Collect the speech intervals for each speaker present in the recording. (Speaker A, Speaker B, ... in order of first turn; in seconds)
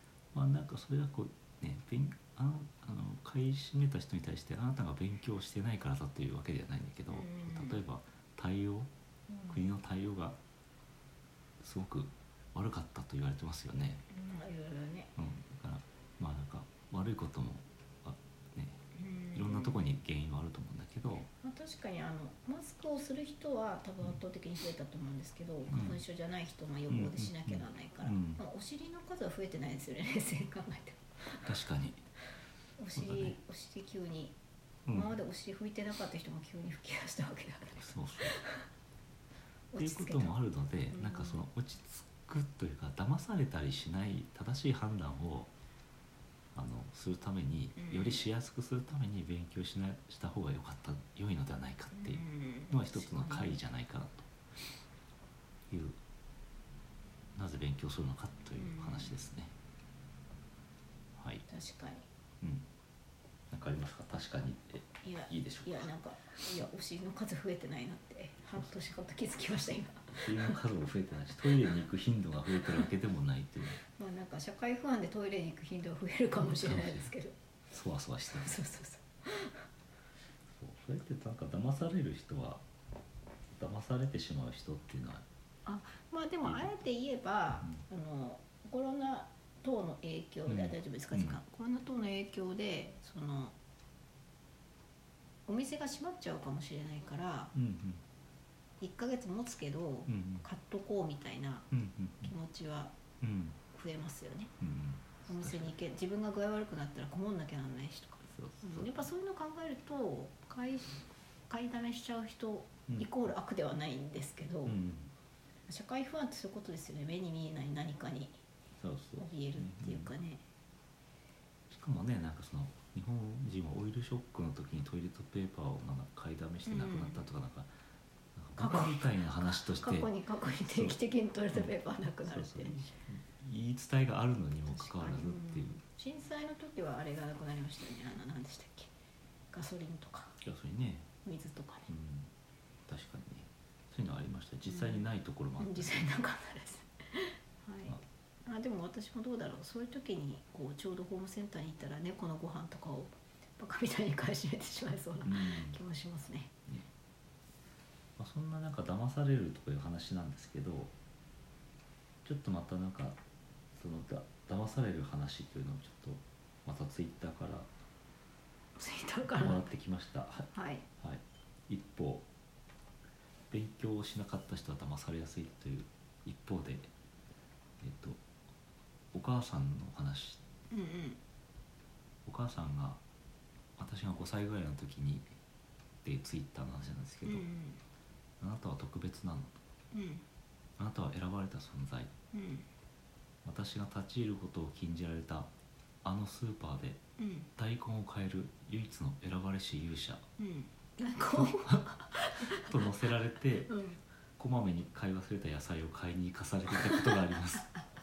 Speaker A: 0.3-8.9, 9.5-10.4, 11.6-14.1, 15.2-21.3, 25.7-26.0, 26.9-28.4, 31.4-32.0, 33.0-33.4, 34.9-35.1, 37.8-38.4, 39.8-45.5, 46.5-54.3, 55.7-56.0, 57.4-59.5, 61.2-61.5, 62.4-62.7, 63.5-65.9, 70.1-73.8, 76.4-77.1, 77.7-78.6, 80.6-82.6, 83.5-85.2, 86.4-86.7, 90.5-91.4, 97.5-98.0, 100.1-100.5, 101.7-102.3, 103.2-103.6, 104.6-105.7, 108.3-109.1, 114.7-115.1, 118.8-120.1, 121.7-127.7, 128.4-131.0, 131.5-135.8, 140.4-141.1, 141.9-142.3, 142.9-146.1, 155.2-155.8, 158.2-160.9, 162.2-163.2, 163.8-167.7, 169.3-172.3, 173.5-176.9, 177.8-178.2, 179.1-180.4, 182.3-183.0, 183.8-185.3, 186.0-187.5, 188.4-189.6, 190.8-192.1, 193.4-195.5, 196.0-197.0, 197.6-200.2, 201.3-203.8, 204.4-207.7
Speaker B: 7.1-7.8, 9.3-9.7, 14.1-15.1, 18.9-19.8, 21.4-31.5, 32.8-34.4, 34.9-38.7, 39.7-40.4, 40.9-41.4, 47.8-48.2, 51.9-53.6, 58.6-59.1, 61.5-62.0, 65.0-70.6, 72.6-72.9, 73.9-77.4, 78.3-79.7, 85.7-93.6, 95.5-97.5, 98.8-101.7, 102.2-103.0, 103.7-104.5, 105.2-114.8, 115.7-118.4, 119.2-120.4, 126.7-127.3, 128.6-132.8, 134.7-138.9, 139.5-140.4, 141.2-141.9, 144.6-156.5, 168.8-169.6, 170.5-170.9, 180.7-181.2, 187.2-187.8, 189.9-190.2, 192.3-192.7, 197.2-197.5, 200.4-202.9, 203.7-204.0